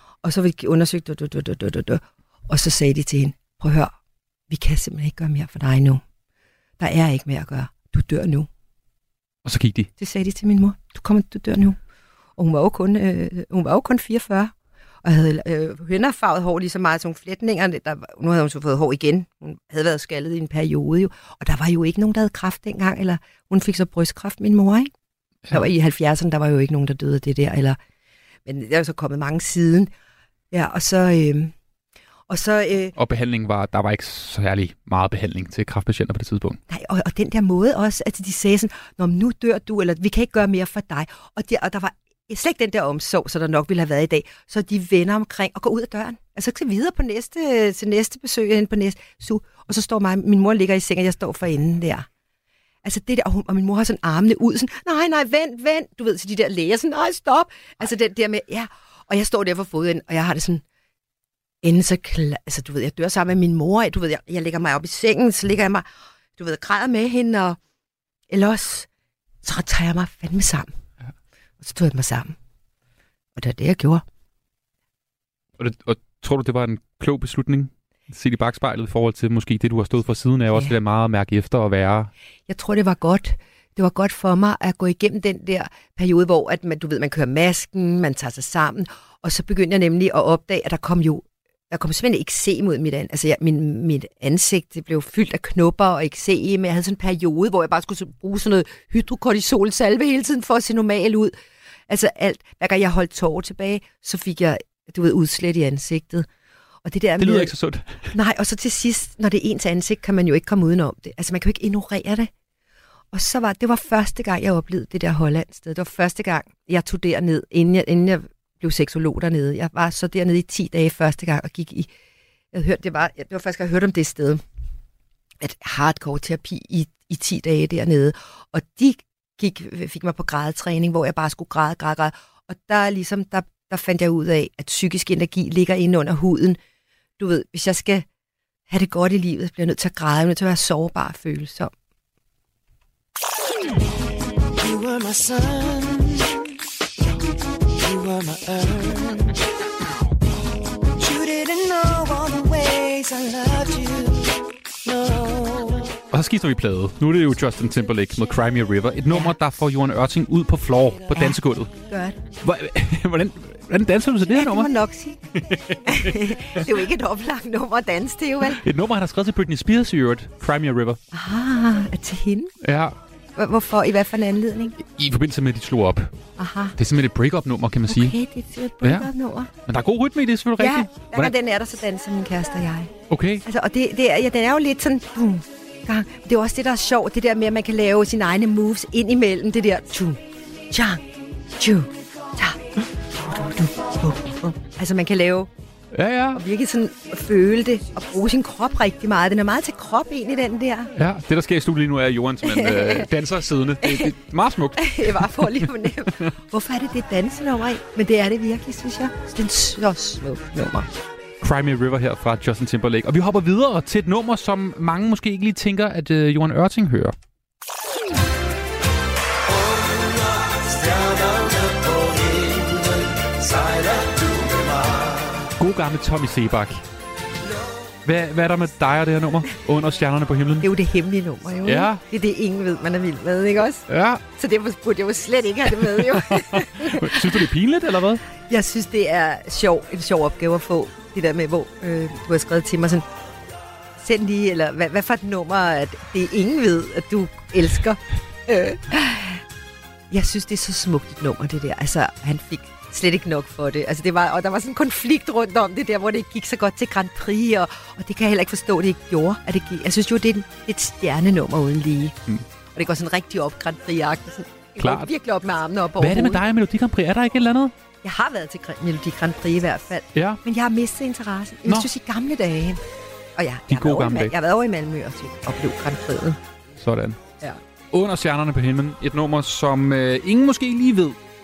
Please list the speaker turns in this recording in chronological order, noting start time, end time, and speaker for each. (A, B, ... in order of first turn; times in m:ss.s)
0:00.2-0:03.9 A
0:04.5-0:06.0 A
0:06.8-0:08.5 A
0:09.4-0:09.9 B
0:10.0-0:11.8 A
0:12.4-0:14.5 A
0:15.0-0:24.9 A
0:25.5-0:27.8 A
0:28.4-0:29.9 A
0:30.5-0:31.5 A
0:32.3-0:32.9 A
0:33.0-0:36.6 B
0:36.7-0:52.1 A
0:52.8-1:00.6 A
1:01.6-1:05.8 A
1:06.4-1:07.6 A
1:08.3-1:08.9 A
1:09.4-1:10.7 A
1:11.6-1:12.3 A
1:13.4-1:14.0 A
1:15.6-1:22.1 B
1:22.5-1:41.3 A
1:41.9-1:46.3 A
1:46.8-1:47.5 A
1:47.2-1:48.1 B
1:48.1-1:52.3 A
1:53.1-2:01.9 A
2:02.5-2:04.4 A
2:05.4-2:16.6 A
2:17.2-2:18.0 A
2:18.7-2:21.7 A
2:24.5-2:26.4 C
2:27.7-2:29.4 C
2:30.8-2:35.9 C
2:36.1-2:41.7 B
2:39.1-2:39.4 A
2:41.1-2:42.2 A
2:42.4-2:44.7 B
2:44.3-2:45.2 A
2:45.4-2:46.6 B
2:45.9-2:48.6 A
2:48.4-2:51.0 B
2:51.1-2:52.5 A
2:52.6-2:53.0 B
2:53.4-2:54.7 A
2:54.8-2:56.1 B
2:56.4-2:56.8 A
2:56.8-2:58.1 B
2:57.9-2:59.5 A
2:58.8-2:59.1 B
2:59.7-3:01.3 B
3:00.6-3:02.9 A
3:03.1-3:03.4 B
3:03.4-3:10.2 A
3:10.7-3:11.0 A
3:11.6-3:12.6 A
3:13.3-3:15.5 A
3:15.9-3:16.4 B
3:16.3-3:20.9 A
3:21.0-3:25.7 B
3:22.4-3:23.1 A
3:23.8-3:24.1 A
3:24.8-3:30.9 A
3:31.4-3:37.1 B
3:45.6-3:46.8 B
3:48.0-3:50.7 B
3:50.6-3:57.4 A
3:51.6-3:52.0 B
3:53.9-3:54.2 B
3:55.9-3:58.2 B
3:58.5-4:03.0 A
4:04.0-4:09.4 A
4:10.1-4:22.1 A
4:22.7-4:26.4 A
4:24.8-4:25.1 B
4:26.0-4:27.7 B
4:28.0-4:32.8 A
4:30.1-4:30.4 B
4:33.4-4:36.4 A
4:33.7-4:34.3 B
4:36.8-4:37.2 B
4:37.9-4:41.2 B